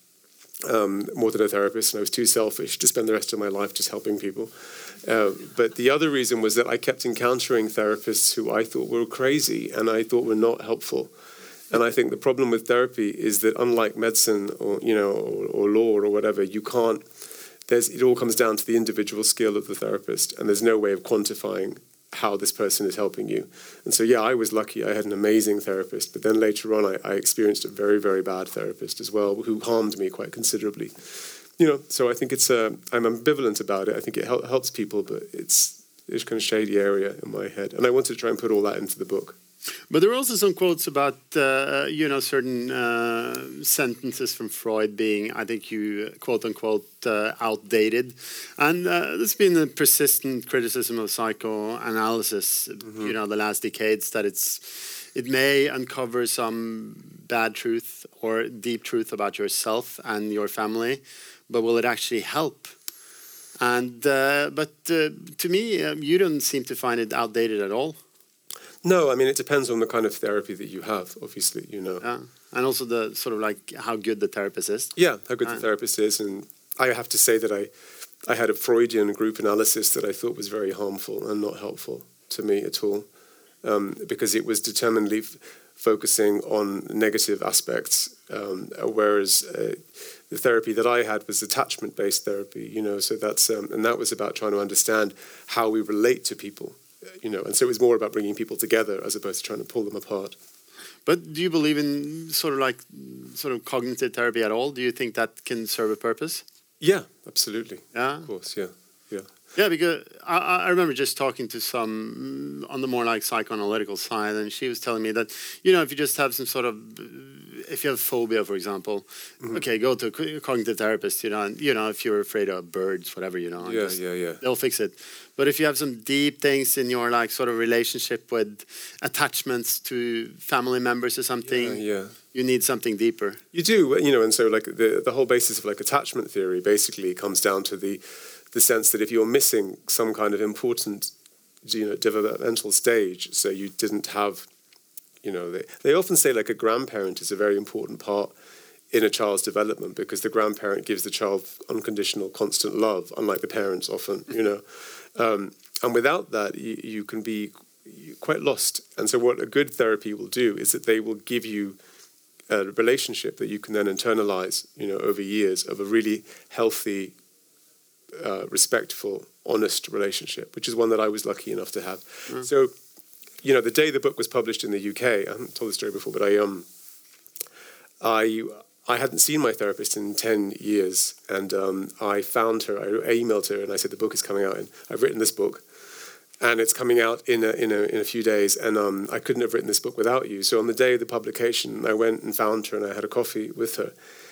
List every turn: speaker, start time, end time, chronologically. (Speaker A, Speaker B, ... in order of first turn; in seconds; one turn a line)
Speaker A: 0.6-4.5
Speaker A: 5.0-11.1
Speaker A: 11.7-17.1
Speaker A: 17.7-39.4
Speaker B: 39.9-62.7
Speaker B: 63.6-68.0
Speaker A: 68.8-72.0
Speaker B: 72.0-75.6
Speaker A: 75.0-77.7
Speaker A: 78.2-83.1
Speaker A: 83.6-100.3
Speaker B: 101.1-106.4
Speaker A: 106.8-109.3
Speaker B: 107.9-108.3
Speaker B: 109.5-131.8
Speaker A: 123.6-124.4
Speaker A: 131.5-132.2
Speaker B: 132.3-133.4
Speaker A: 133.5-141.1
Speaker A: 141.7-144.5
Speaker A: 145.2-148.3
Speaker A: 148.9-154.6
Speaker A: 155.2-161.8
Speaker A: 162.5-167.2
Speaker A: 168.1-172.7
Speaker A: 173.4-176.7
Speaker A: 178.0-185.6
Speaker A: 186.4-193.9